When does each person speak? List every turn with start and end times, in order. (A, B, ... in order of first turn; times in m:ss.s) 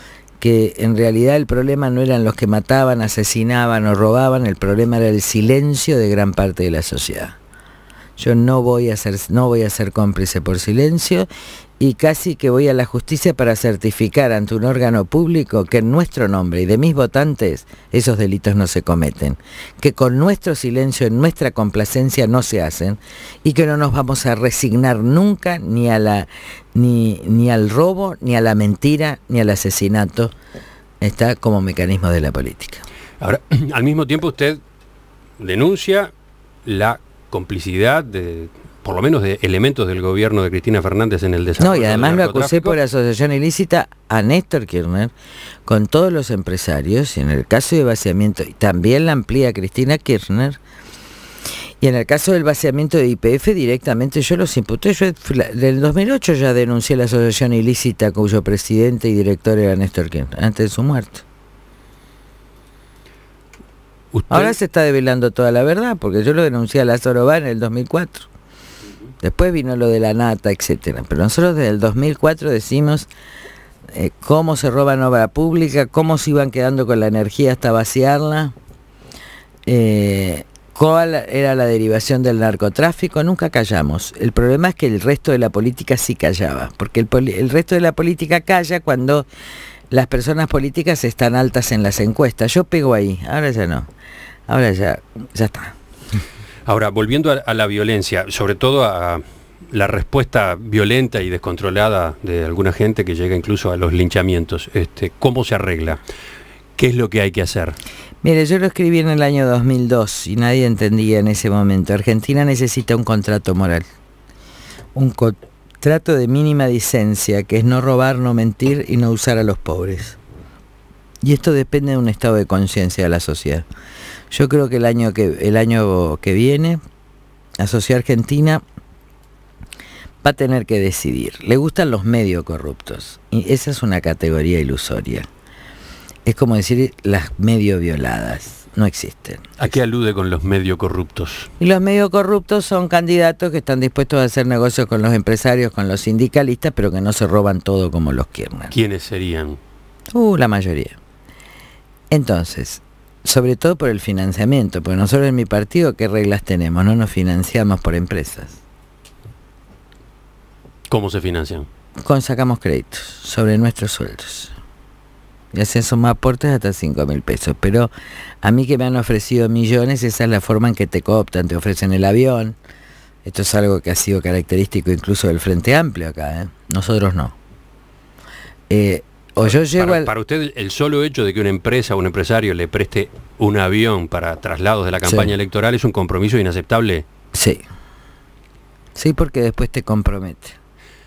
0:00.4-0:07.4 A
0:08.2-0:11.3 A
0:11.8-0:30.3 A
0:31.0-0:32.8 A
0:33.2-0:34.6 B
0:35.4-0:36.1 B
0:36.6-0:42.8 B
0:41.6-0:45.1 A
0:45.7-0:50.6 A
0:51.8-1:01.2 A
1:04.1-1:04.6 B
1:04.3-1:08.3 A
1:09.2-1:13.1 A
1:13.9-1:18.6 A
1:19.7-1:29.3 A
1:29.9-1:33.9 A
1:34.5-1:35.8 A
1:36.7-1:46.0 B
1:46.8-1:47.8 B
1:48.2-1:53.9 A
1:54.9-2:00.2 A
2:01.2-2:03.7 A
2:04.3-2:06.8 A
2:07.6-2:08.6 A
2:10.2-2:15.3 A
2:16.2-2:19.4 A
2:19.6-2:21.5 B
2:21.6-2:28.7 A
2:28.7-2:29.6 B
2:30.1-2:31.0 A
2:32.1-2:38.6 A
2:40.9-2:41.7 B
2:42.0-2:44.5 A
2:45.5-2:52.6 A
2:53.2-2:57.4 A
2:58.7-3:00.1 A
2:59.4-3:07.0 B
3:05.0-3:05.3 A
3:07.3-3:07.6 A
3:09.0-3:10.6 A